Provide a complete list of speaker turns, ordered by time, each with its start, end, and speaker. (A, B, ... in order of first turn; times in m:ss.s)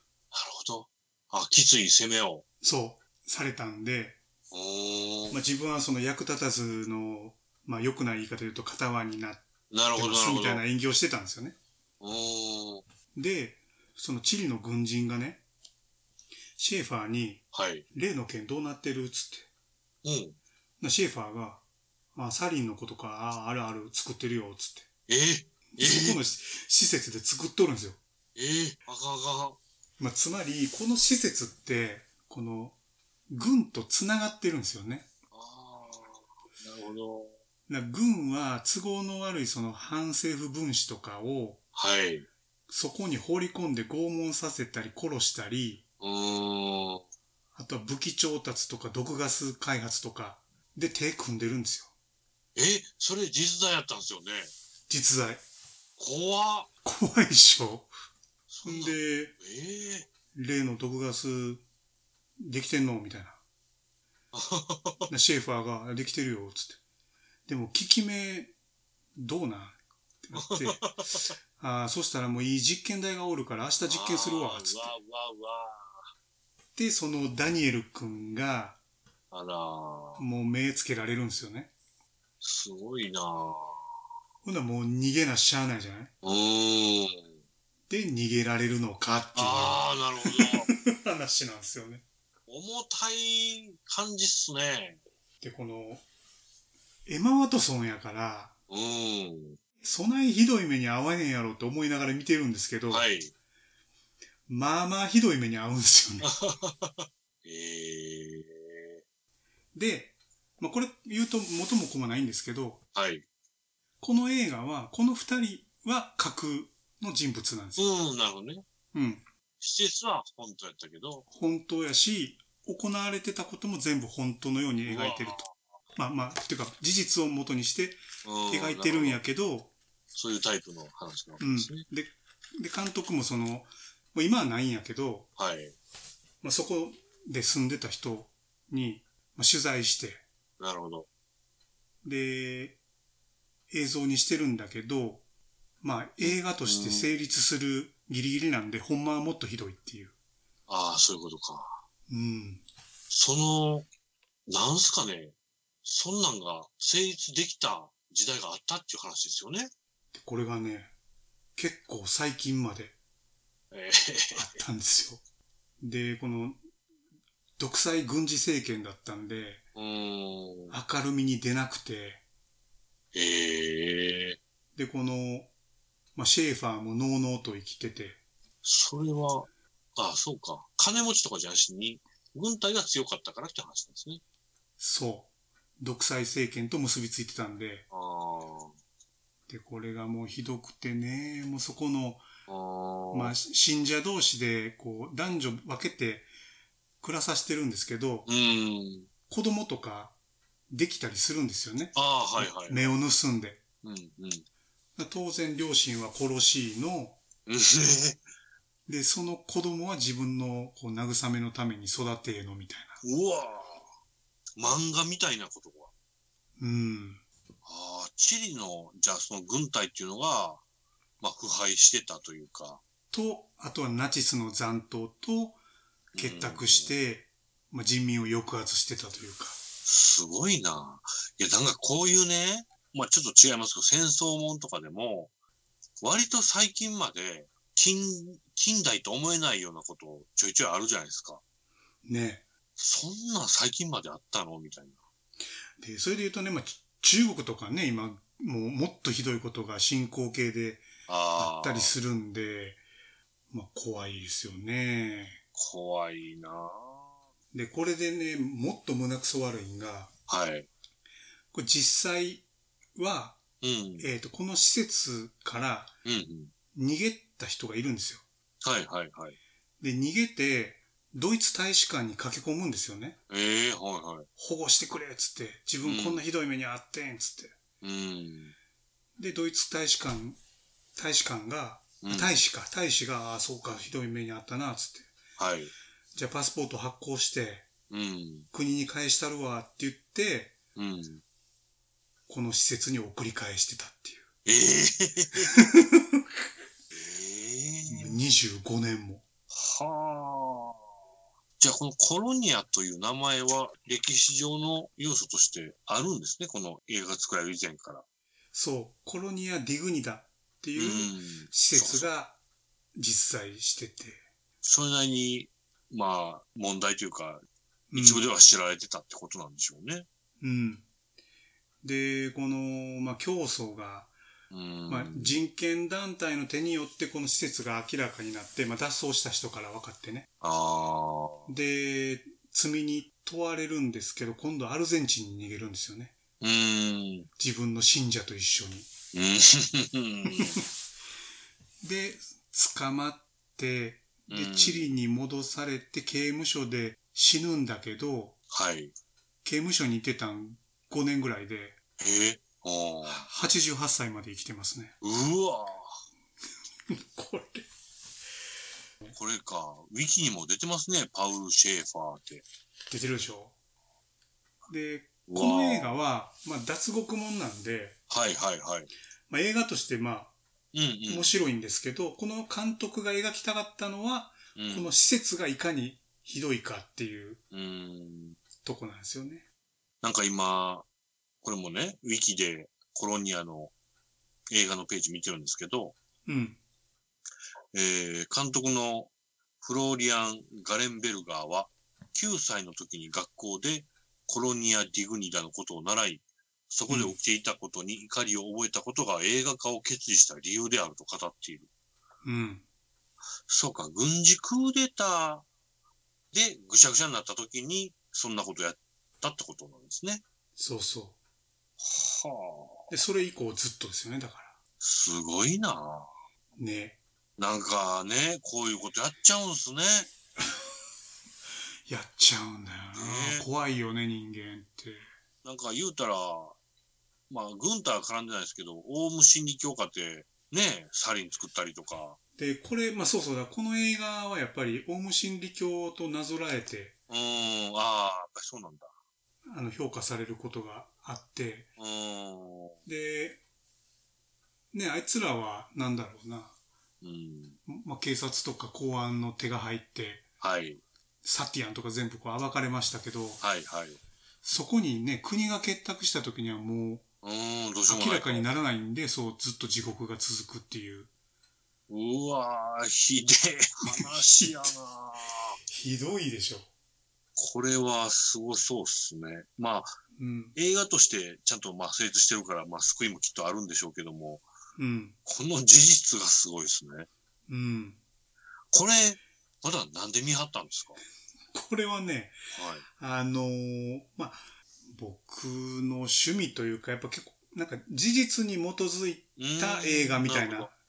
0:00.3-0:02.4 A
0:02.6-0:04.2 B
0:04.5-0:05.4 A
0:05.3-0:09.4 B
0:09.7-0:10.6 A
0:10.0-0:11.6 B
0:12.0-0:12.8 A
0:13.2-0:15.4 B
0:16.6-0:19.5 B
0:17.5-0:17.8 A
0:20.0-0:20.4 A
0:20.8-0:21.6 B
0:22.1-0:24.9 B
0:25.1-0:26.2 A
0:25.7-0:28.0 B
0:28.4-0:29.6 A
0:30.0-0:32.8 B
0:33.3-0:35.1 B
0:35.3-0:37.4 A
0:37.7-0:41.6 B
0:41.8-0:42.3 A
0:42.7-0:45.8 B
0:46.0-0:47.0 A
0:47.6-0:51.9 B
0:52.6-0:54.5 A
0:54.9-0:55.4 B
0:56.0-0:56.7 A
0:56.8-0:57.9 B
0:58.5-1:00.1 A
0:58.6-0:59.4 B
1:00.3-1:01.6 B
1:02.4-1:03.4 B
1:04.3-1:05.1 A
1:05.1-1:06.8 B
1:07.5-1:08.5 B
1:09.2-1:10.9 B
1:10.4-1:11.3 A
1:11.5-1:14.9 B
1:13.9-1:16.1 A
1:16.8-1:18.8 B
1:19.3-1:20.2 A
1:20.2-1:21.7 B
1:22.4-1:23.9 A
1:24.4-1:26.1 B
1:26.2-1:27.4 A
1:27.9-1:32.0 B
1:29.3-1:30.7 A
1:32.5-1:35.0 A
1:35.4-1:36.0 B
1:37.1-1:38.5 B
1:38.7-1:39.6 A
1:39.8-1:43.1 B
1:42.9-1:43.3 A
1:44.5-1:46.4 B
1:46.2-1:49.0 A
1:49.8-1:52.8 B
1:53.0-1:53.2 A
1:54.0-1:57.9 B
1:57.8-1:58.6 A
1:58.9-1:59.2 B
1:59.6-2:01.3 A
2:01.3-2:05.4 B
2:04.9-2:05.6 A
2:06.0-2:09.7 B
2:08.2-2:09.2 A
2:10.1-2:11.8 A
2:11.4-2:15.3 B
2:15.4-2:15.8 A
2:16.4-2:20.2 B
2:20.6-2:21.1 A
2:22.0-2:22.8 B
2:23.7-2:25.2 B
2:25.8-2:30.1 B
2:26.2-2:27.1 A
2:30.7-2:31.8 A
2:32.1-2:32.6 B
2:33.1-2:33.9 A
2:34.5-2:39.7 A
2:40.1-2:40.9 B
2:41.6-2:43.0 B
2:43.7-2:44.6 A
2:44.3-2:45.2 B
2:45.8-2:46.6 B
2:47.6-2:49.6 B
2:49.8-2:50.8 A
2:50.7-2:52.2 B
2:53.1-2:54.4 A
2:54.8-2:55.5 B
2:56.2-2:58.2 B
2:58.6-3:04.2 A
3:04.8-3:07.9 B
3:07.9-3:08.8 A
3:09.5-3:12.2 B
3:12.5-3:13.4 A
3:13.1-3:16.3 B
3:17.0-3:18.3 B
3:18.3-3:19.1 A
3:19.3-3:20.2 B
3:20.7-3:23.6 B
3:22.0-3:23.0 A
3:23.8-3:24.5 A
3:25.0-3:27.2 B
3:27.5-3:28.2 A
3:28.9-3:33.0 B
3:33.0-3:33.9 A
3:34.6-3:35.9 A
3:36.6-3:37.2 B
3:37.6-3:40.6 A
3:41.2-3:42.8 A
3:43.1-3:45.6 B
3:46.1-3:47.0 A
3:46.2-3:49.6 B
3:49.9-3:55.3 A
3:56.0-4:01.4 A
4:02.0-4:02.4 B
4:02.8-4:05.0 A
4:05.8-4:12.8 B
4:11.1-4:11.9 A
4:13.5-4:15.4 B
4:15.6-4:17.2 A
4:17.5-4:20.1 B
4:20.3-4:20.7 A
4:21.5-4:23.4 B
4:23.6-4:24.1 A
4:24.0-4:25.9 B
4:26.0-4:26.5 A
4:26.7-4:28.2 B
4:28.6-4:29.4 A
4:29.8-4:33.2 B
4:33.3-4:34.3 A
4:34.4-4:37.6 B
4:35.8-4:36.2 A
4:37.8-4:38.5 A
4:39.2-4:40.4 B
4:41.0-4:45.1 B
4:42.0-4:42.3 A
4:45.4-4:45.7 A
4:46.1-4:47.7 B
4:47.9-4:48.5 A
4:48.5-4:50.6 B
4:50.8-4:51.2 A
4:52.3-4:54.3 B
4:54.5-4:55.6 A
4:55.4-4:56.4 B
4:56.9-4:58.2 A
4:57.9-4:59.2 B
4:59.5-5:00.8 A
5:01.6-5:08.0 A
5:08.5-5:12.4 B
5:10.8-5:12.1 A
5:13.0-5:14.2 B
5:14.6-5:20.1 A
5:17.9-5:18.3 B
5:20.4-5:20.9 B
5:21.8-5:24.1 B
5:24.5-5:25.4 A
5:24.9-5:30.3 B
5:30.4-5:31.5 A
5:31.5-5:36.2 B
5:36.4-5:37.3 A
5:37.4-5:38.9 B
5:39.1-5:40.6 A
5:40.3-5:40.6 B
5:41.8-5:48.4 B
5:44.3-5:44.9 A
5:48.5-5:48.9 A
5:49.4-5:51.8 B
5:52.0-5:53.3 A
5:53.0-5:55.0 B
5:55.0-5:56.0 A
5:56.9-5:57.7 B
5:59.2-6:02.4 A
6:02.9-6:03.5 B
6:04.7-6:08.0 B
6:05.3-6:06.0 A
6:08.1-6:08.9 A
6:09.3-6:10.3 B
6:10.7-6:11.4 A
6:11.1-6:17.4 B
6:14.6-6:14.9 A
6:17.5-6:18.4 A
6:18.6-6:19.4 B
6:20.0-6:20.9 A
6:21.4-6:23.7 A
6:24.5-6:26.0 A
6:26.3-6:26.6 B
6:27.7-6:29.1 A
6:29.6-6:41.7 A
6:36.9-6:37.2 B
6:42.2-6:42.6 B
6:43.5-6:45.5 A
6:46.3-6:50.2 A
6:50.6-6:51.2 B
6:51.8-6:52.9 A
6:52.9-6:54.6 B
6:54.8-6:56.1 A
6:56.6-6:57.0 B
6:57.4-7:00.1 A
7:01.9-7:05.1 B
7:03.0-7:03.5 A
7:05.4-7:06.6 A
7:07.3-7:12.2 A
7:12.4-7:17.0 B
7:17.1-7:18.9 A
7:19.5-7:21.7 B
7:21.8-7:22.8 A
7:22.9-7:23.4 B
7:24.7-7:26.5 B
7:27.0-7:27.6 A
7:27.7-7:30.2 B
7:30.4-7:30.8 A
7:31.2-7:33.4 B
7:33.4-7:34.0 A
7:34.4-7:37.0 B
7:37.2-7:38.5 A
7:37.9-7:41.1 B
7:41.9-7:45.6 A
7:43.9-7:44.7 B
7:45.7-7:46.7 B
7:47.4-7:49.9 A
7:50.2-7:50.6 B
7:50.6-7:54.4 A
7:54.8-7:55.2 B
7:55.3-7:57.1 A
7:57.5-7:58.0 B
7:58.7-8:01.0 A
8:01.5-8:02.4 B
8:02.5-8:02.8 A
8:03.0-8:10.7 B
8:09.4-8:10.7 A